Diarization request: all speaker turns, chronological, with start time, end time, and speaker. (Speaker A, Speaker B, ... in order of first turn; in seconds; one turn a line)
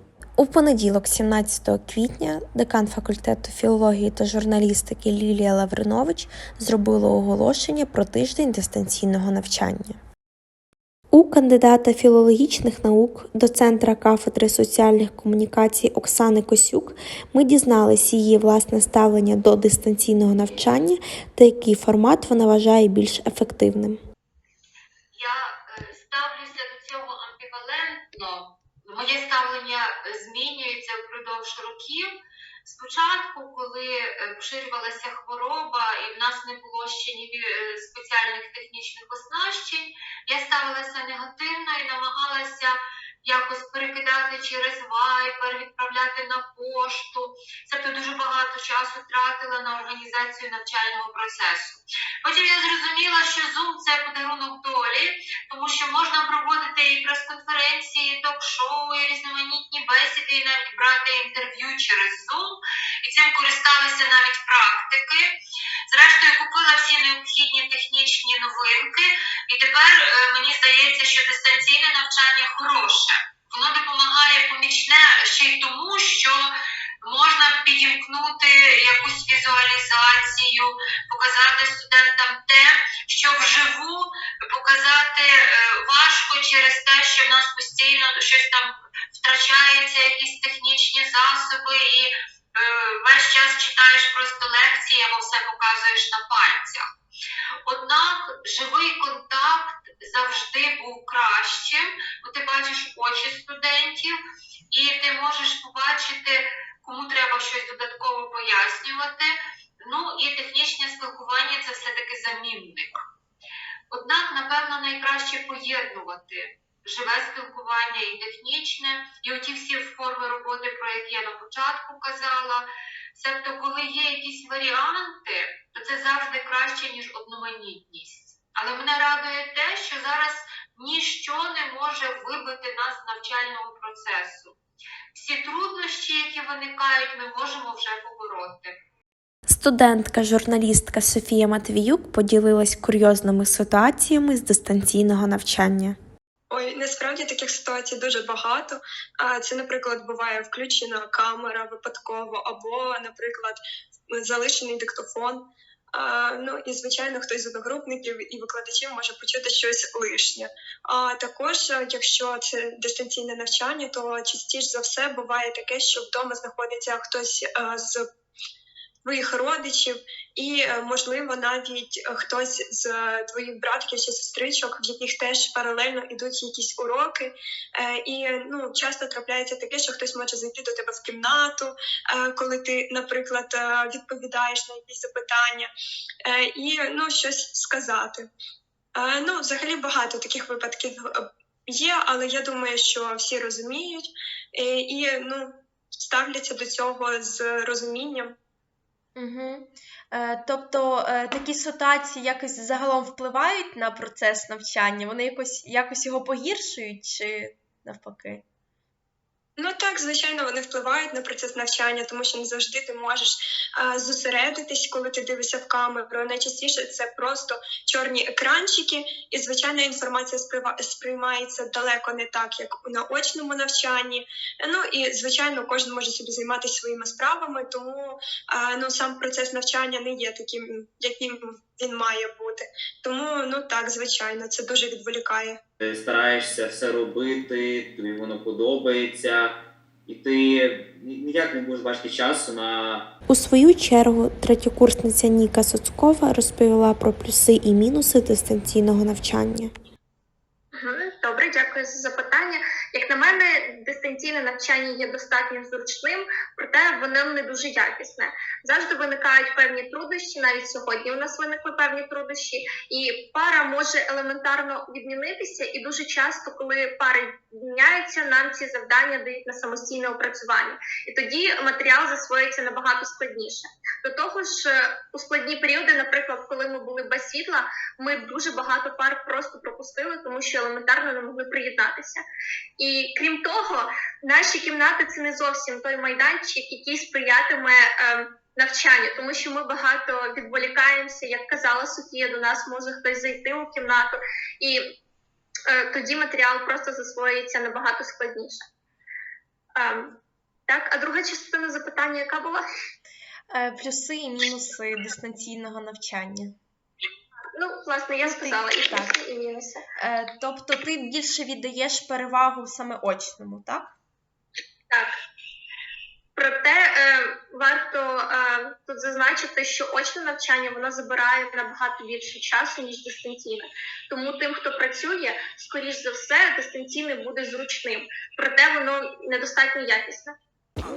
Speaker A: 0.4-10.0
Speaker A: 11.1-24.0
Speaker B: 25.1-32.1
Speaker B: 32.6-65.3
Speaker B: 65.9-76.5
Speaker B: 77.0-96.9
Speaker B: 97.7-104.2
Speaker B: 104.7-109.3
Speaker B: 109.8-113.0
Speaker B: 113.9-134.6
Speaker B: 135.1-138.8
Speaker A: 139.5-146.0
Speaker C: 146.5-153.6
Speaker C: 154.1-168.0
Speaker C: 169.0-185.7
Speaker C: 186.2-188.3
Speaker C: 188.9-198.3
Speaker D: 199.2-208.4
Speaker C: 209.6-235.6
Speaker E: 235.8-243.1
Speaker A: 243.3-249.7
Speaker F: 250.7-282.2
Speaker F: 282.8-294.8
Speaker F: 295.7-298.6
Speaker F: 299.8-302.6
Speaker D: 303.5-306.6
Speaker F: 307.6-309.8
Speaker D: 308.2-309.1
Speaker D: 310.0-313.9
Speaker F: 316.4-330.3